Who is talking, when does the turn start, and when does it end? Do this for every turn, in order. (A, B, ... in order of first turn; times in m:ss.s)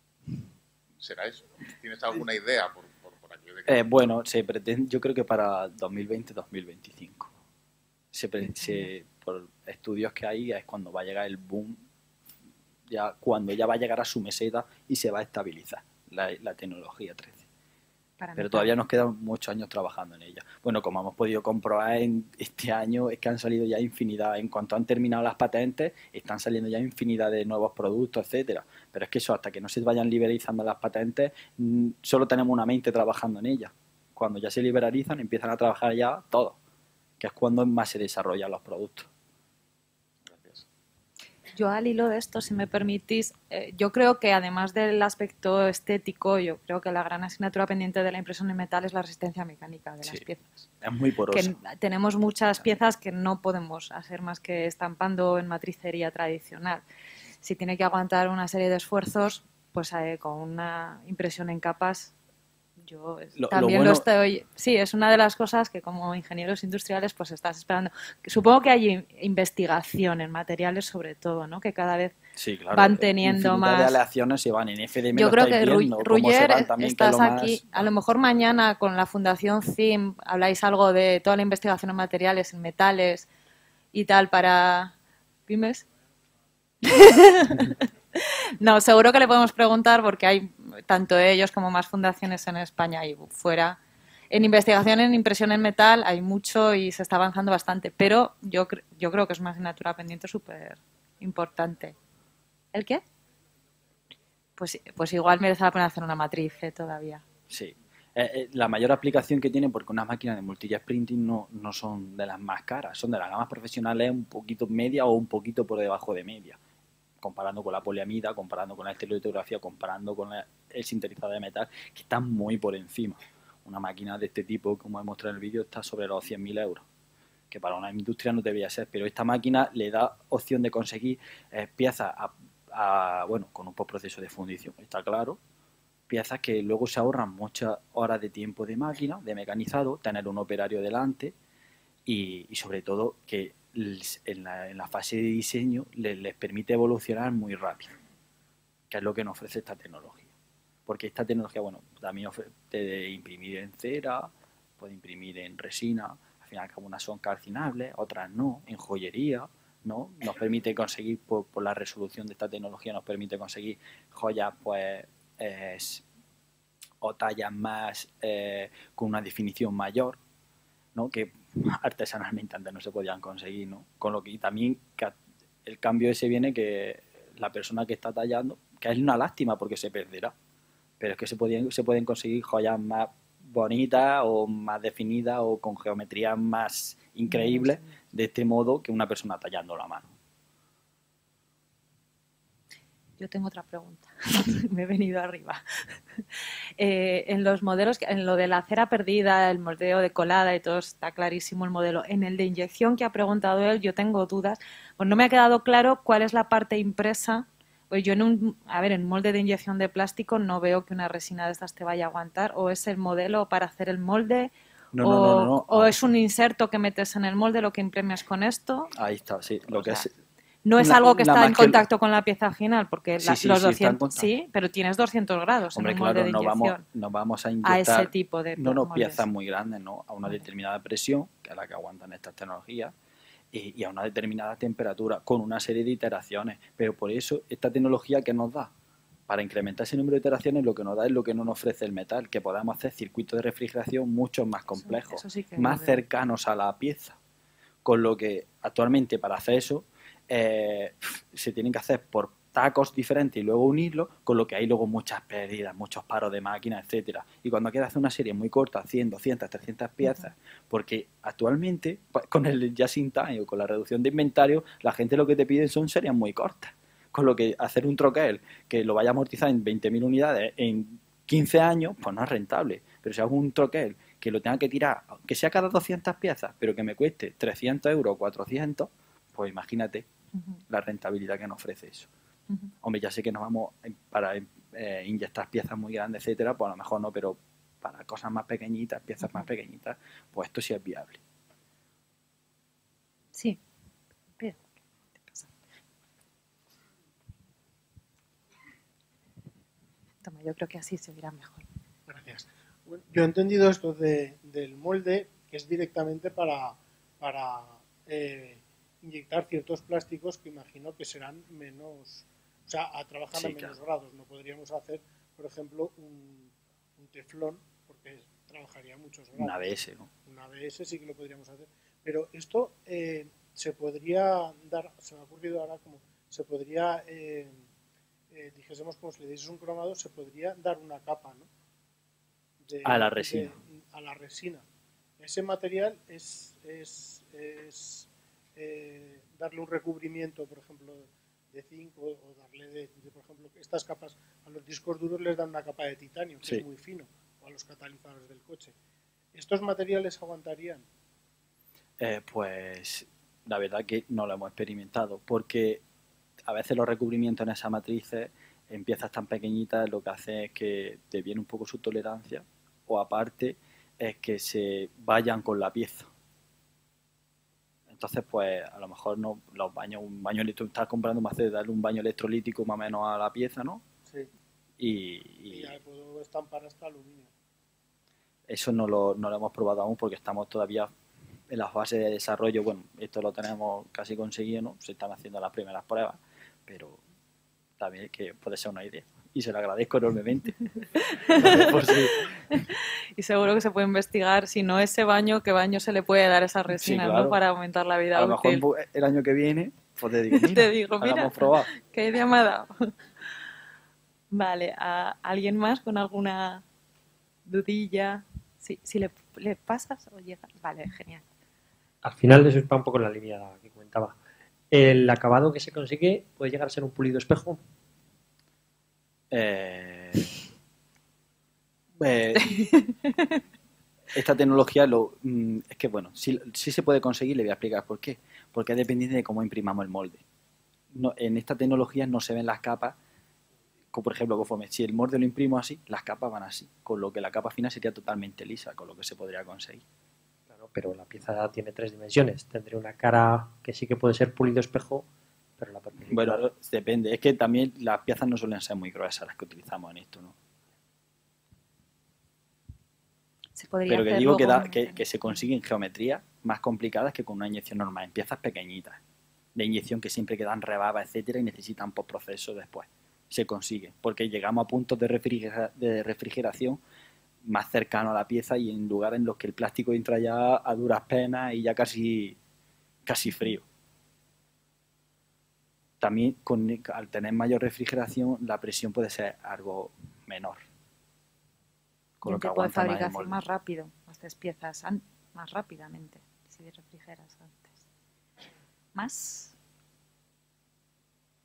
0:01.0-0:03.8 A
0:03.7-0:07.3 B
0:08.1-0:11.8 B
0:08.6-0:08.9 C
0:12.9-0:17.4 B
0:18.2-0:18.7 C
0:18.4-0:36.6 B
0:37.2-0:39.1 B
0:41.5-0:50.7 C
0:50.8-0:51.5 B
0:51.3-0:56.8 C
0:57.4-1:02.1 C
1:02.8-1:12.2 C
1:03.4-1:04.0 B
1:12.4-1:17.9 B
1:12.7-1:14.0 C
1:15.1-1:23.3 C
1:23.9-1:24.9 C
1:25.5-1:25.8 C
1:26.8-1:33.8 C
1:34.3-1:42.0 C
1:42.7-1:43.0 C
1:44.6-1:47.2 C
1:47.5-1:56.6 B
1:57.2-2:06.8 B
2:07.5-2:15.4 B
2:16.1-2:21.3 B
2:22.0-2:27.9 B
2:28.9-2:30.3 B
2:30.9-2:46.0 B
2:47.0-2:50.2 B
2:50.9-3:00.3 B
3:01.0-3:10.1 B
3:07.3-3:07.9 C
3:13.2-3:16.2 C
3:16.8-3:38.9 C
3:34.9-3:36.0 B
3:38.9-3:40.1 B
3:39.8-3:40.0 C
3:40.6-3:46.8 C
3:40.8-3:41.8 B
3:43.2-3:44.3 B
3:45.7-3:52.9 B
3:47.6-3:49.2 C
3:53.5-3:58.7 B
3:59.3-4:07.2 B
4:04.8-4:06.0 C
4:07.8-4:40.1 B
4:40.7-4:42.1 B
4:42.8-4:51.2 B
4:53.3-4:53.6 C
4:55.2-4:55.5 C
5:00.2-5:01.7 C
5:02.1-5:19.6 D
5:13.3-5:13.8 B
5:19.4-5:20.1 B
5:20.2-5:27.6 D
5:28.3-5:31.5 D
5:32.6-5:34.6 D
5:32.8-5:33.5 B
5:35.2-5:48.7 D
5:49.3-5:50.8 D
5:52.0-5:55.8 B
5:56.5-6:06.1 B
6:07.9-6:13.8 B
6:14.8-6:15.8 B
6:15.5-6:17.3 D
6:18.5-6:20.9 B
6:21.5-6:27.0 B
6:27.8-6:30.6 B
6:31.1-6:38.6 C
6:31.3-6:32.4 B
6:36.8-6:37.4 B
6:38.1-6:41.7 B
6:40.3-6:42.9 C
6:44.3-6:46.6 C
6:47.4-6:51.2 C
6:52.0-6:54.2 E
6:54.7-6:57.6 E
6:59.3-7:00.4 B
7:02.0-7:02.7 B
7:02.4-7:03.4 C
7:04.1-7:10.2 B
7:10.9-7:13.0 B
7:13.9-7:19.8 B
7:20.5-7:25.1 E
7:25.6-7:26.4 E
7:26.1-7:30.3 B
7:33.5-7:35.4 C
7:33.9-7:39.0 B
7:39.5-7:46.8 B
7:47.4-7:52.4 B
7:53.0-7:53.6 B
7:56.0-8:00.6 B
8:02.2-8:03.4 B
8:02.2-8:07.8 C
8:08.9-8:09.5 C